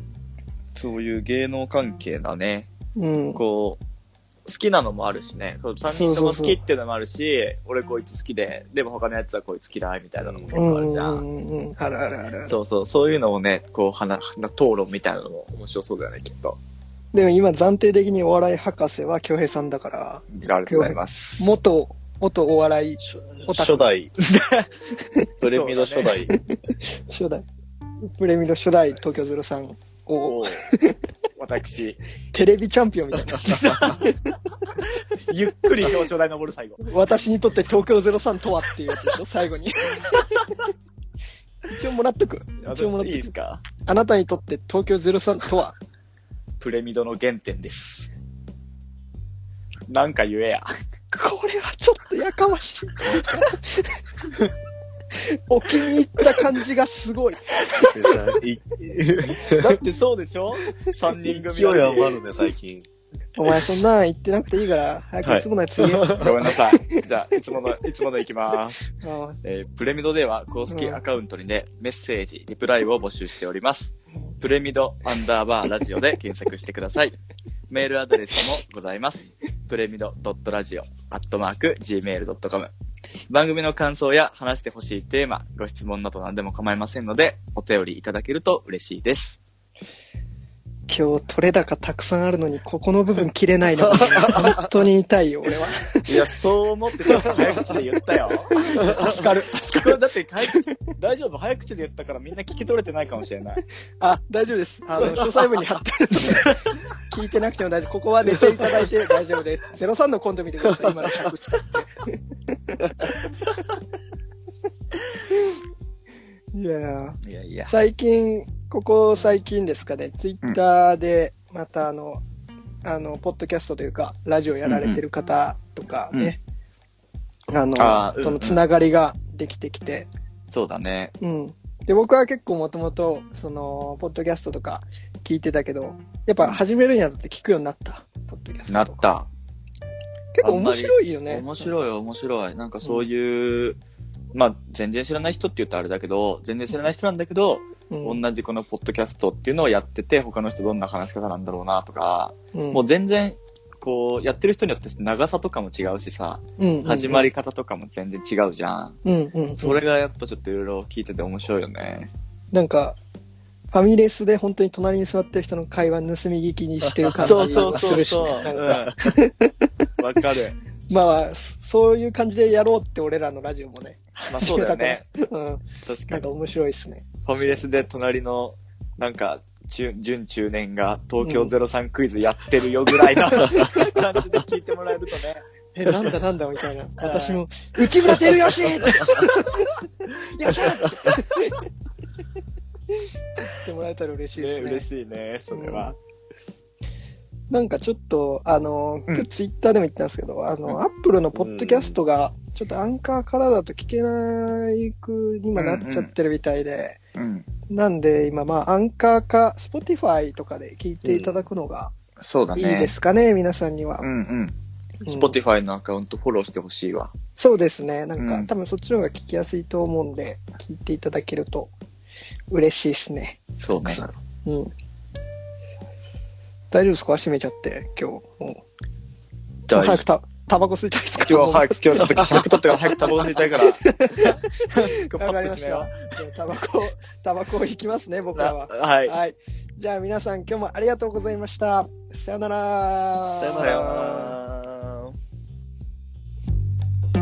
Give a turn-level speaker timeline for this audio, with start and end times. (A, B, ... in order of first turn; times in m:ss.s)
0:00.7-0:02.7 A
0:03.0-0:03.4 B
0:03.3-0:03.8 A
0:04.4-0:11.2 A
0:05.9-0:06.6 B
0:10.2-0:10.5 C
0:10.5-0:12.6 B
0:12.4-0:16.6 A
0:17.1-0:23.9 B
0:20.3-0:21.5 A
0:23.0-0:24.1 C
0:24.3-0:24.7 A
0:25.4-0:26.3 C
0:25.4-0:26.2 A
0:27.1-0:27.4 B
0:28.0-0:31.0 B
0:30.2-0:30.6 A
0:31.4-0:32.0 A
0:32.3-0:34.1 B
0:33.3-0:36.8 A
0:36.8-0:40.2 B
0:40.1-0:40.4 A
0:41.7-0:43.3 B
0:42.6-0:43.6 A
0:43.8-0:45.8 B
0:46.6-0:48.1 A
0:49.9-0:50.6 A
0:51.1-0:54.0 B
0:55.2-0:57.9 B
0:57.7-0:59.8 C
0:59.6-1:02.2 A
1:01.2-1:02.9 C
1:03.4-1:06.2 B
1:05.8-1:06.3 C
1:06.0-1:08.9 A
1:09.0-1:09.4 B
1:09.4-1:17.2 A
1:10.7-1:11.0 B
1:17.7-1:22.7 A
1:23.3-1:29.4 A
1:30.9-1:36.1 B
1:34.0-1:34.5 C
1:36.0-1:43.6 A
1:38.6-1:39.9 B
1:38.8-1:39.2 C
1:44.0-1:46.6 B
1:47.1-1:53.2 B
1:50.8-1:51.2 C
1:56.5-2:02.2 B
1:57.2-1:57.7 A
2:02.8-2:06.4 B
2:04.6-2:05.0 A
2:07.5-2:10.1 B
2:07.8-2:08.6 A
2:10.5-2:11.1 A
2:11.2-2:19.0 B
2:18.7-2:19.3 A
2:20.3-2:21.7 B
2:20.4-2:23.8 A
2:24.3-2:39.0 A
2:27.9-2:28.2 B
2:32.5-2:32.8 B
2:36.6-2:37.3 B
2:39.0-2:39.8 B
2:39.6-2:42.1 A
2:42.5-2:43.0 B
2:43.7-2:49.7 B
2:47.0-2:48.9 C
2:47.2-2:49.0 A
2:50.0-2:50.6 A
2:50.9-2:57.1 B
2:54.3-2:55.0 A
2:55.8-2:56.3 A
2:57.2-3:05.4 A
3:01.2-3:01.5 B
3:03.3-3:03.8 B
3:05.7-3:11.6 B
3:07.0-3:07.4 A
3:08.0-3:09.4 A
3:13.4-3:14.9 B
3:14.4-3:16.0 A
3:15.5-3:15.9 B
3:17.5-3:27.0 B
3:21.3-3:22.0 C
3:25.5-3:26.1 A
3:27.2-3:27.5 A
3:27.7-3:31.9 B
3:31.0-3:31.5 C
3:32.2-3:32.9 A
3:32.6-3:34.1 B
3:34.0-3:37.1 A
3:35.0-3:35.4 B
3:37.4-3:41.7 B
3:38.2-3:38.5 A
3:42.5-3:44.7 B
3:43.6-3:44.0 A
3:46.7-3:48.6 B
3:49.7-3:50.0 A
3:49.7-4:04.3 B
3:51.3-3:56.0 A
3:58.3-3:59.2 A
4:03.2-4:04.4 C
4:03.6-4:05.2 A